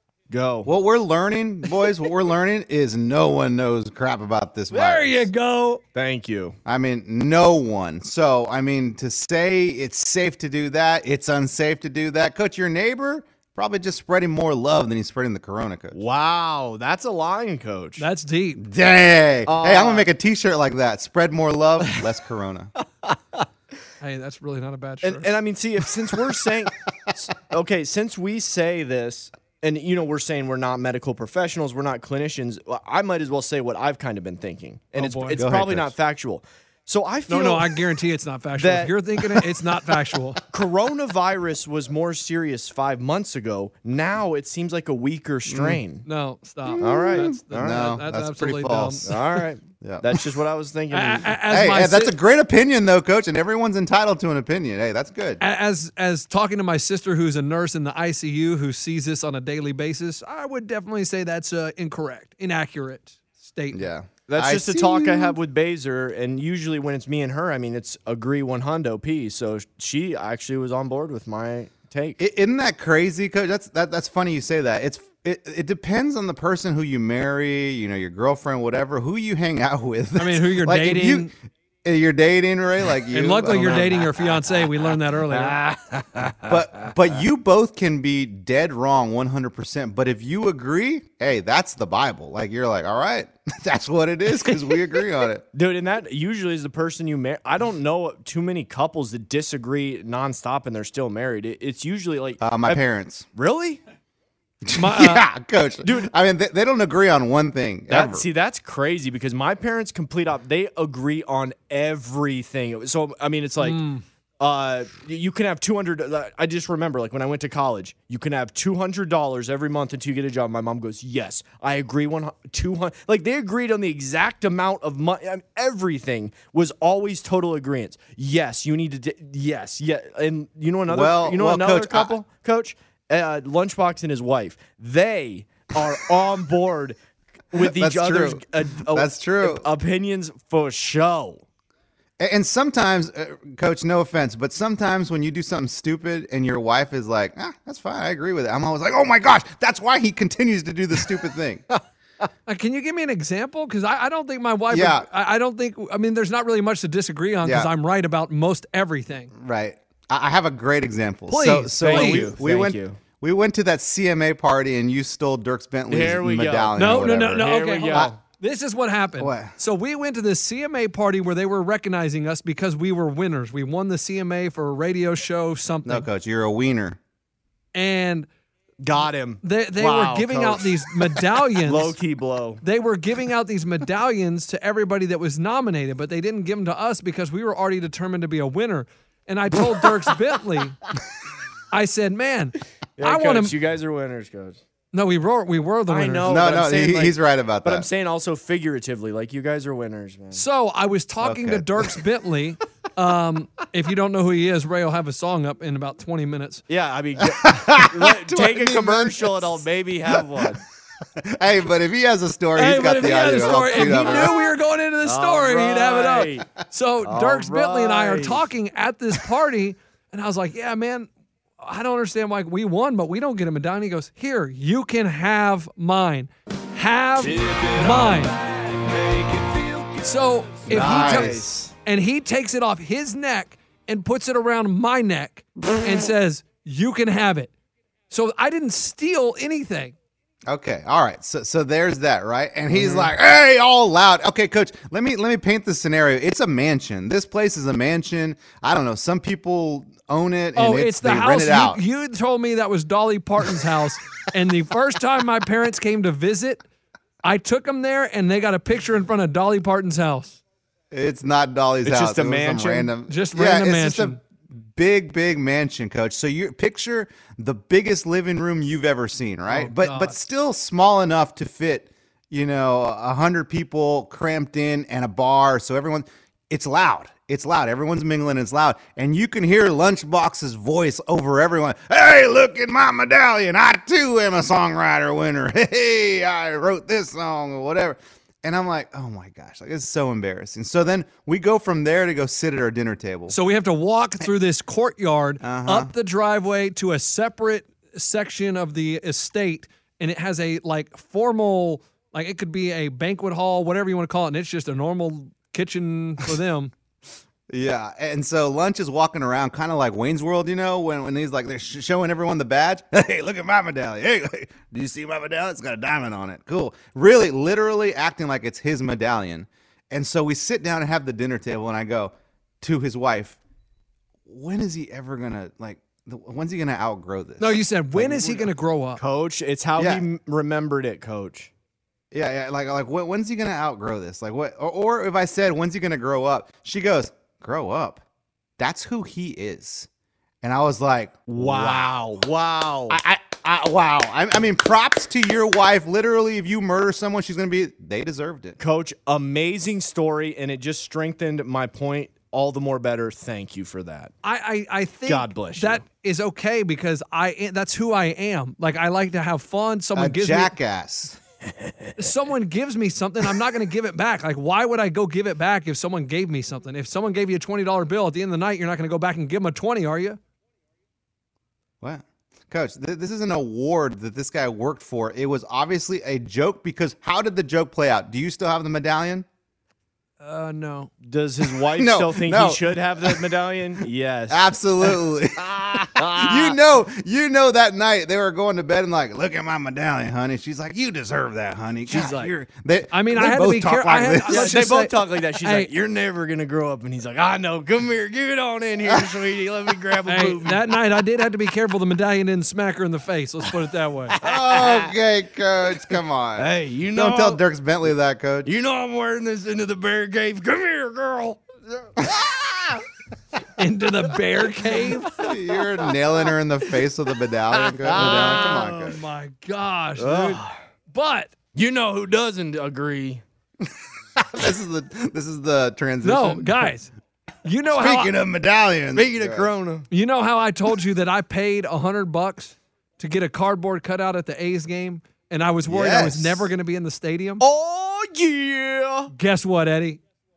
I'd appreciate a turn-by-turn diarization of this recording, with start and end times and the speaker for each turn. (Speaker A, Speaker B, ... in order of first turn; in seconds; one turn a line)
Speaker A: 0.3-0.7
Speaker B: 0.7-5.3
Speaker C: 4.7-5.8
Speaker A: 5.9-6.6
Speaker B: 6.7-16.0
Speaker A: 15.9-18.1
Speaker C: 18.0-18.6
Speaker B: 18.6-22.7
Speaker A: 19.5-20.1
Speaker A: 23.1-23.4
Speaker C: 24.0-25.3
Speaker A: 25.0-37.8
Speaker C: 35.0-35.4
Speaker B: 35.4-35.9
Speaker C: 37.3-40.4
Speaker A: 38.6-39.2
Speaker A: 40.5-46.0
Speaker B: 45.5-45.8
Speaker C: 46.0-49.1
Speaker B: 46.7-49.2
Speaker A: 46.8-47.4
Speaker A: 49.1-51.3
Speaker B: 49.8-50.1
Speaker C: 50.9-52.1
Speaker B: 51.5-55.4
Speaker C: 55.4-63.9
Speaker B: 63.7-65.4
Speaker A: 64.3-72.2
Speaker B: 72.2-81.3
Speaker C: 80.2-81.3
Speaker B: 81.8-84.2
Speaker C: 83.1-85.6
Speaker A: 85.3-86.9
Speaker B: 86.5-95.4
Speaker A: 95.5-102.8
Speaker B: 102.4-103.2
Speaker A: 103.3-103.8
Speaker B: 104.7-108.3
Speaker C: 104.8-105.3
Speaker A: 105.8-106.1
Speaker A: 107.9-113.8
Speaker C: 113.6-114.0
Speaker A: 114.4-137.0
Speaker B: 130.9-132.2
Speaker A: 137.5-141.4
Speaker B: 137.6-139.7
Speaker B: 142.2-151.7
Speaker C: 152.5-159.3
Speaker B: 154.7-155.1
Speaker B: 157.4-157.7
Speaker B: 159.3-168.1
Speaker C: 161.3-162.3
Speaker A: 161.8-163.0
Speaker A: 165.9-168.2
Speaker C: 166.8-176.1
Speaker B: 169.2-169.5
Speaker B: 175.8-177.0
Speaker C: 177.8-178.3
Speaker A: 178.8-182.6
Speaker C: 179.4-181.9
Speaker C: 182.6-190.8
Speaker C: 191.7-193.5
Speaker A: 193.0-194.6
Speaker C: 194.9-196.3
Speaker A: 195.9-200.4
Speaker B: 196.2-197.9
Speaker C: 200.3-206.6
Speaker B: 201.2-201.9
Speaker A: 206.7-210.6
Speaker B: 207.4-209.6
Speaker B: 210.2-210.4
Speaker B: 211.2-214.4
Speaker C: 212.6-228.4
Speaker A: 215.0-216.5
Speaker A: 217.0-218.4
Speaker A: 227.2-230.0
Speaker C: 230.0-237.5
Speaker A: 230.7-231.7
Speaker B: 230.7-231.4
Speaker C: 238.1-239.9
Speaker B: 240.5-251.8
Speaker A: 242.7-243.1
Speaker C: 250.6-256.6
Speaker C: 257.2-260.4
Speaker B: 260.9-293.4
Speaker A: 261.8-262.9
Speaker C: 263.1-264.2
Speaker C: 269.5-270.1
Speaker C: 293.3-306.7
Speaker B: 295.4-295.9
Speaker B: 307.5-323.4
Speaker B: 324.3-328.5
Speaker C: 327.4-329.0
Speaker A: 329.0-331.5
Speaker B: 329.8-330.0
Speaker B: 332.1-338.0
Speaker B: 338.6-339.9
Speaker B: 340.4-341.9
Speaker A: 341.3-343.0
Speaker B: 342.9-348.6
Speaker A: 348.6-354.1
Speaker C: 354.2-360.5
Speaker A: 355.1-355.8
Speaker B: 359.9-361.2
Speaker A: 361.7-361.9
Speaker C: 362.0-370.2
Speaker B: 371.8-379.3
Speaker C: 380.2-380.9
Speaker A: 381.0-386.6
Speaker B: 381.7-383.3
Speaker B: 384.3-394.6
Speaker A: 391.9-392.3
Speaker C: 392.9-395.7
Speaker A: 394.2-400.6
Speaker C: 400.1-404.2
Speaker A: 404.2-404.9
Speaker B: 404.2-408.5
Speaker A: 406.4-407.4
Speaker A: 408.4-411.4
Speaker A: 412.1-412.4
Speaker C: 413.6-415.1
Speaker B: 415.2-419.0
Speaker A: 417.5-418.8
Speaker C: 418.0-421.3
Speaker A: 420.0-420.6
Speaker A: 421.5-423.2
Speaker B: 424.2-426.7
Speaker C: 426.0-426.9
Speaker C: 427.4-428.1
Speaker B: 427.7-429.5
Speaker A: 428.9-429.9
Speaker C: 429.9-437.4
Speaker B: 435.7-436.5
Speaker A: 437.4-439.1
Speaker C: 439.1-440.0